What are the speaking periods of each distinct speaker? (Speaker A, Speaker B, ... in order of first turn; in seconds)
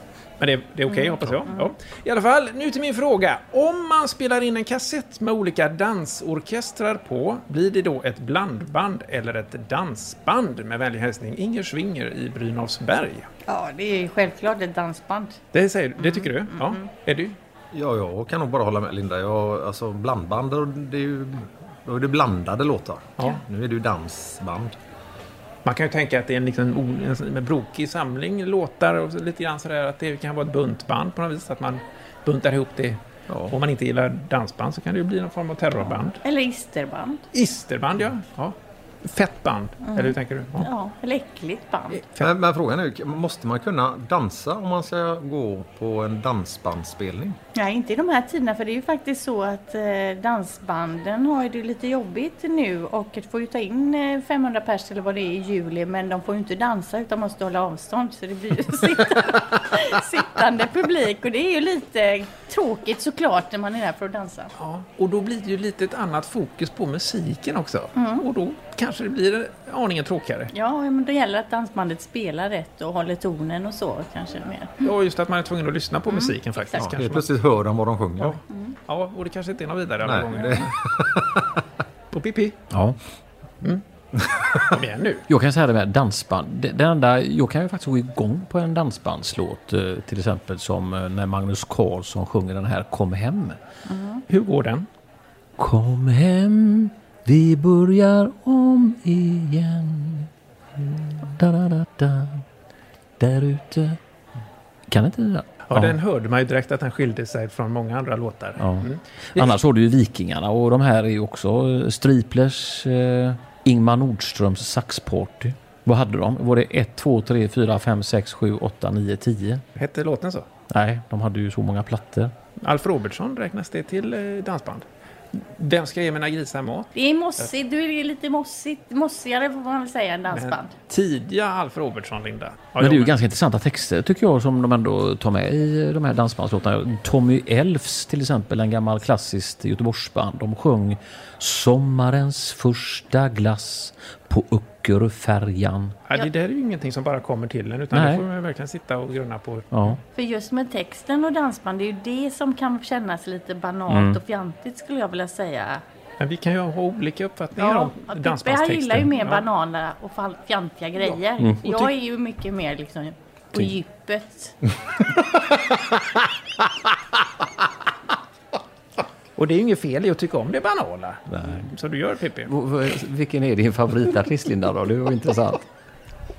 Speaker A: 0.4-13.3, 15.5-17.4, 25.6-36.2, 37.3-40.7, 64.6-70.5, 74.8-77.3, 78.2-80.8, 82.1-82.6, 84.7-85.2, 94.3-94.9, 105.7-109.5, 119.8-120.5, 122.6-126.9, 130.3-133.1, 146.1-149.9, 156.2-159.4, 169.3-172.5
Speaker B: 0.9-1.7, 13.5-15.4, 16.0-16.8, 36.2-37.2, 39.8-42.0, 47.5-64.5, 68.0-68.2, 70.5-74.8, 76.1-76.8, 93.9-94.2, 126.9-130.7, 150.1-155.8, 157.6-164.5
Speaker C: 17.7-24.8, 33.3-33.5, 42.2-47.4, 76.8-78.4, 80.0-81.6
Speaker D: 82.7-83.0, 85.3-93.6, 95.6-102.4, 103.2-104.0, 104.9-106.0, 108.6-119.6, 120.7-122.3, 132.8-145.9, 147.9-148.2, 149.7-150.0, 153.9-154.2, 171.3-171.7, 172.5-175.6